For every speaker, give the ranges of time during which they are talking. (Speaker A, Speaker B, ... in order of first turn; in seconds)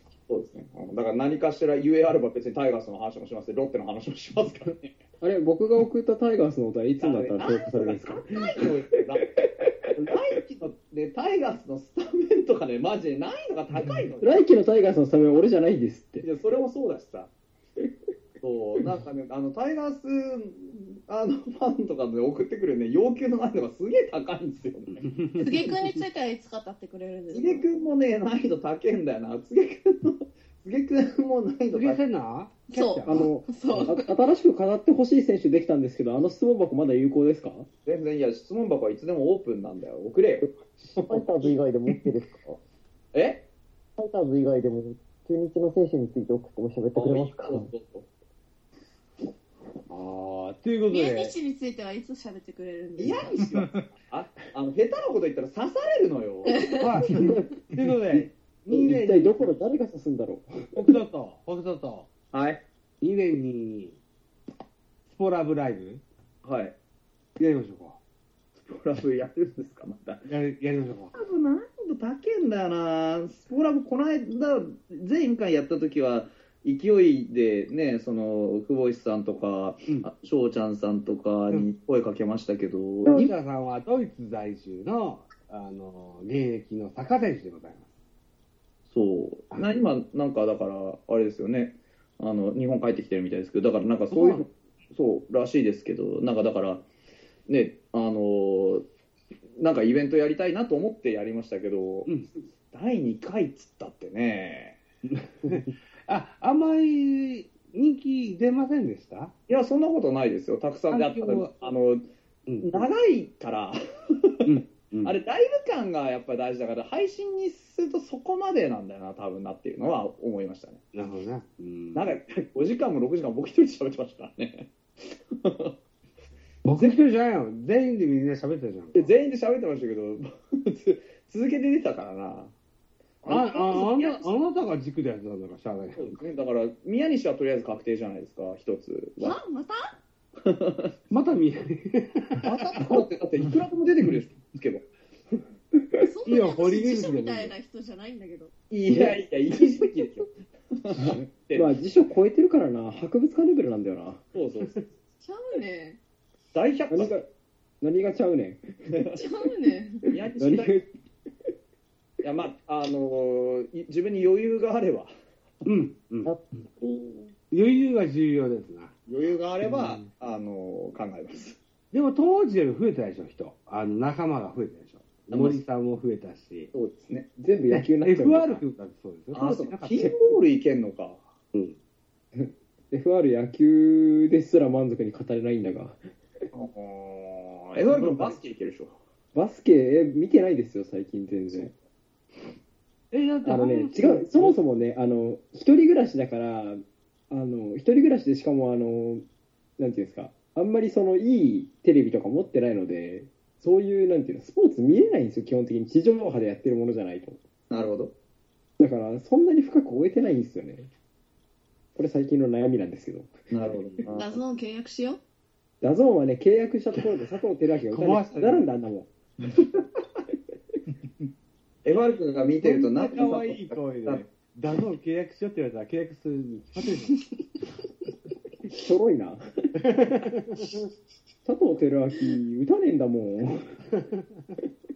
Speaker A: 0.3-5.0, 7.0-9.2, 10.0-14.5, 16.2-17.3, 18.4-25.4, 27.3-32.0, 37.9-41.6, 43.1-43.4, 47.0-48.1, 53.0-56.7, 62.3-62.6, 66.4-66.7, 68.7-70.3, 71.1-83.3, 88.9-96.9, 97.5-98.8, 99.6-102.1, 102.7-104.8, 109.5-112.1, 112.6-114.5, 115.0-120.8, 122.0-124.7, 125.3-125.7, 126.7-127.0, 128.9-132.5, 133.2-134.3, 136.0-139.4, 140.4-140.9, 142.4-144.8, 148.7-151.7, 154.3-154.9, 156.5-157.2, 158.9-159.2, 160.1-160.8, 162.2-165.1, 166.8-167.2, 169.1-171.6, 175.3-175.6, 176.7-177.3, 179.3-181.2, 186.5-189.0, 207.7-208.1, 213.5-214.4, 219.5-219.8, 221.8-224.2
Speaker B: 5.2-10.0, 14.2-16.3, 33.1-37.7, 58.1-61.0, 148.9-149.9, 150.9-154.2, 156.9-157.3, 157.8-158.6, 160.1-160.9, 177.4-178.6, 179.9-180.4, 182.4-186.0, 189.3-191.7, 193.4-199.2, 199.8-207.4, 208.8-210.9, 212.0-213.8, 215.8-219.1, 228.8-229.4, 231.4-233.8
Speaker C: 25.0-25.5, 31.7-33.8, 49.9-51.3, 56.8-59.5, 60.8-62.1, 63.0-64.0, 65.1-66.0, 67.4-68.0, 70.2-71.2, 83.1-87.9, 89.5-89.8, 94.1-94.5, 105.1-109.3, 110.9-111.7, 112.5-112.8, 114.5-115.1, 120.9-122.0, 126.6-129.1, 133.2-136.2, 141.1-142.9, 146.3-147.6, 165.7-166.7, 167.5-168.9, 171.9-176.7, 177.7-180.1, 193.1-194.6, 217.9-218.7, 222.6-227.2, 229.8-230.6
Speaker D: 25.4-27.7, 32.7-34.1, 50.9-53.4, 56.5-56.8, 139.2-139.9, 146.0-148.5, 155.2-156.0, 159.2-160.0, 214.2-215.2
Speaker E: 40.5-42.6, 44.0-47.7